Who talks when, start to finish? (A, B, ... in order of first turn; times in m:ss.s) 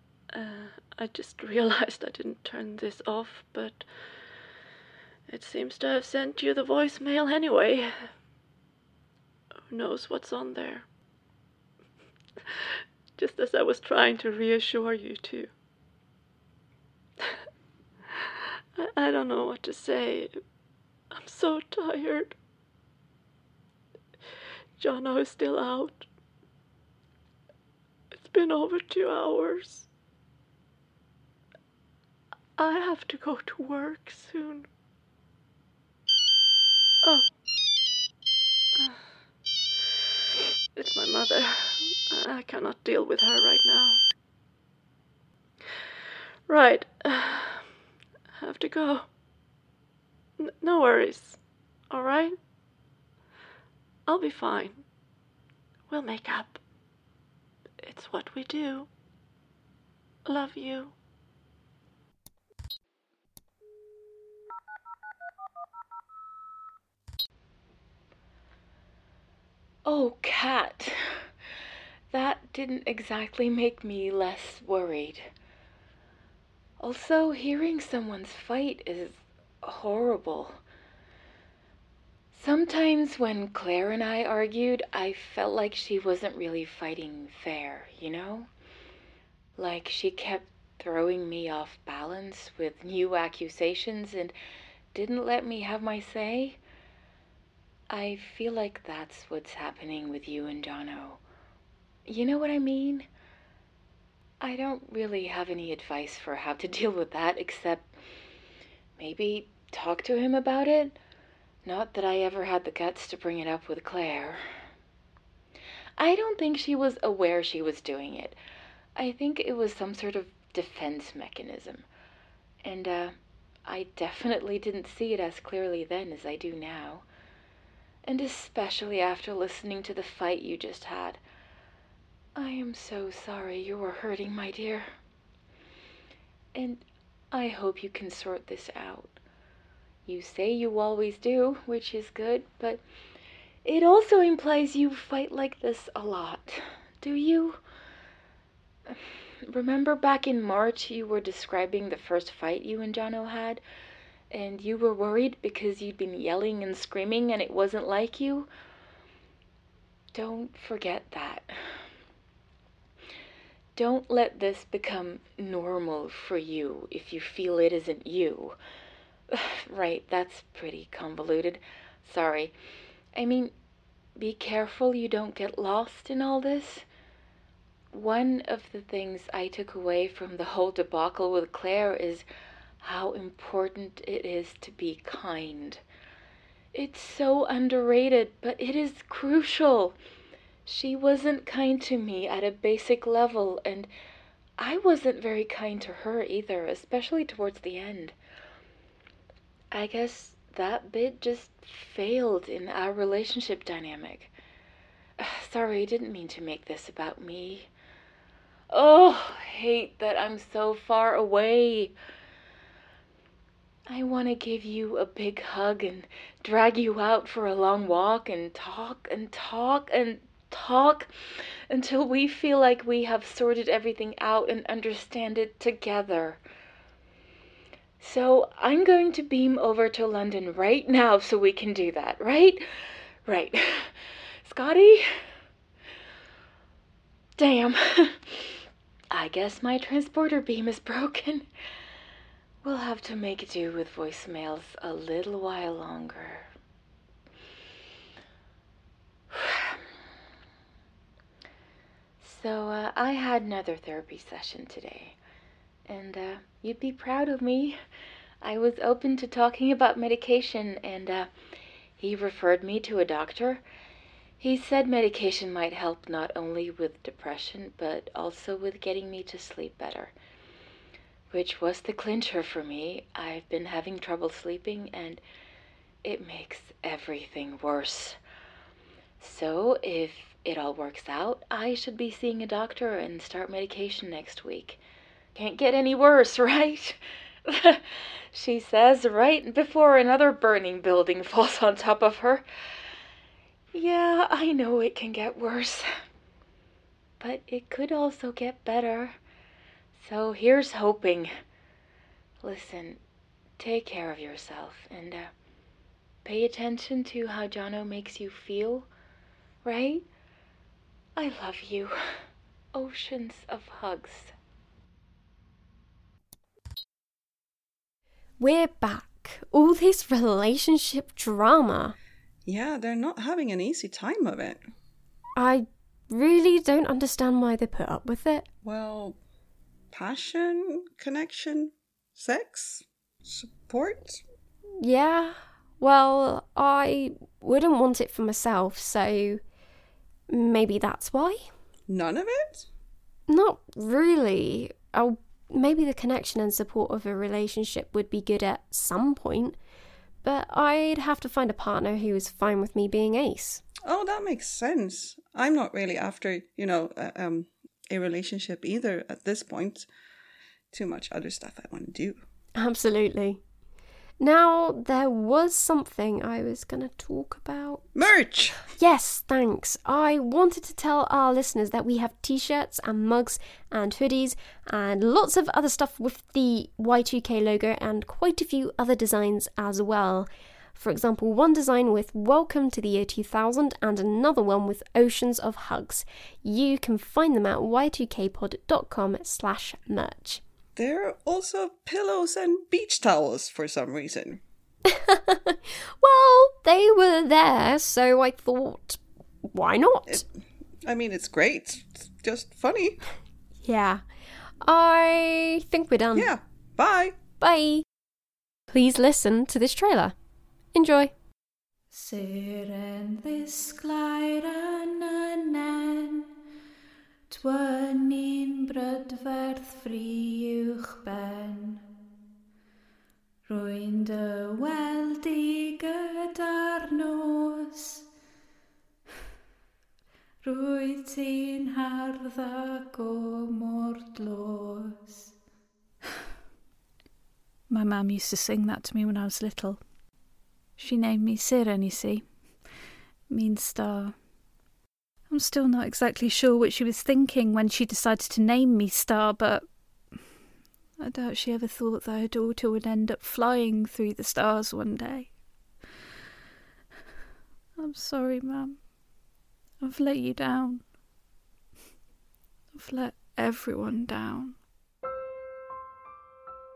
0:00.3-0:03.8 A
0:05.3-0:08.1 A
0:09.7-0:10.9 A
0:13.2-0:15.5 A
0:18.8-0:20.3 A
0:21.1-0:22.4 A
0:24.8-0:26.1 A
0:28.1-0:29.9 A
0:32.6-0:34.7 A
0:40.8-0:44.0 A
0:46.5-0:47.7 A
0:48.4-0:49.1 A
0:50.4-0:51.4 A
0:51.9-0:52.4 A
0:54.1-0:54.8 A
0:55.9-0:56.6 A
0:57.8-0:58.9 A
1:00.3-1:00.9 A
1:09.8-1:11.2 B
1:12.1-1:15.3 B
1:16.8-1:20.6 B
1:22.3-1:28.5 B
1:29.6-1:34.3 B
1:34.9-1:36.6 B
1:37.9-1:41.2 B
1:42.1-1:43.1 B
1:44.4-1:47.9 B
1:49.0-1:51.0 B
1:51.6-1:54.4 B
1:56.0-1:58.4 B
1:59.0-2:01.9 B
2:02.6-2:03.1 B
2:03.7-2:07.1 B
2:08.0-2:11.2 B
2:12.4-2:14.9 B
2:16.5-2:19.2 B
2:20.1-2:22.8 B
2:23.6-2:27.6 B
2:28.9-2:33.6 B
2:34.3-2:38.5 B
2:40.1-2:41.8 B
2:43.8-2:48.6 B
2:49.3-2:52.5 B
2:53.2-2:53.5 B
2:54.2-2:56.9 B
2:57.9-3:02.3 B
3:02.8-3:05.8 B
3:06.7-3:10.0 B
3:10.7-3:13.9 B
3:14.6-3:18.2 B
3:19.7-3:24.3 B
3:25.2-3:27.7 B
3:28.7-3:32.0 B
3:33.9-3:41.1 B
3:41.7-3:46.4 B
3:48.0-3:52.6 B
3:53.3-3:55.1 B
3:57.4-3:58.6 B
3:59.1-4:01.5 B
4:02.6-4:06.5 B
4:09.3-4:09.8 B
4:12.2-4:15.2 B
4:15.9-4:17.8 B
4:18.4-4:21.3 B
4:22.0-4:23.6 B
4:24.4-4:30.1 B
4:31.3-4:35.2 B
4:36.0-4:38.2 B
4:39.2-4:44.8 B
4:45.4-4:52.4 B
4:53.7-4:55.9 B
4:57.2-4:59.2 B
5:00.0-5:01.3 B
5:02.4-5:03.0 B
5:03.6-5:05.3 B
5:06.2-5:08.9 B
5:09.6-5:10.1 B
5:11.2-5:12.0 B
5:12.7-5:14.3 B
5:18.4-5:22.0 C
5:22.5-5:24.6 D
5:25.4-5:28.5 C
5:28.6-5:29.2 D
5:29.9-5:34.2 D
5:34.8-5:39.4 C
5:40.3-5:41.5 C
5:41.9-5:42.7 D
5:43.3-5:49.6 C
5:50.2-5:53.6 C
5:53.8-5:59.9 D
6:00.7-6:02.2 D
6:02.6-6:03.4 C
6:04.2-6:08.1 C
6:08.0-6:08.7 D
6:08.7-6:30.4 C
6:30.8-6:34.4 D
6:35.0-6:39.0 C
6:39.5-6:40.2 C
6:40.9-6:43.1 D
6:43.6-6:44.0 C
6:44.6-6:46.3 C
6:46.1-6:47.1 D
6:47.4-6:47.8 C
6:48.7-6:50.2 C
6:50.7-6:51.1 C
6:51.9-6:56.3 E
6:57.3-7:01.8 E
7:03.5-7:08.0 E
7:10.4-7:15.2 E
7:17.7-7:19.8 E
7:20.8-7:22.3 E
7:23.3-7:24.2 E
7:25.3-7:29.7 E
7:31.0-7:35.3 E
7:37.8-7:38.8 E
7:39.8-7:40.8 E
7:42.7-7:44.6 E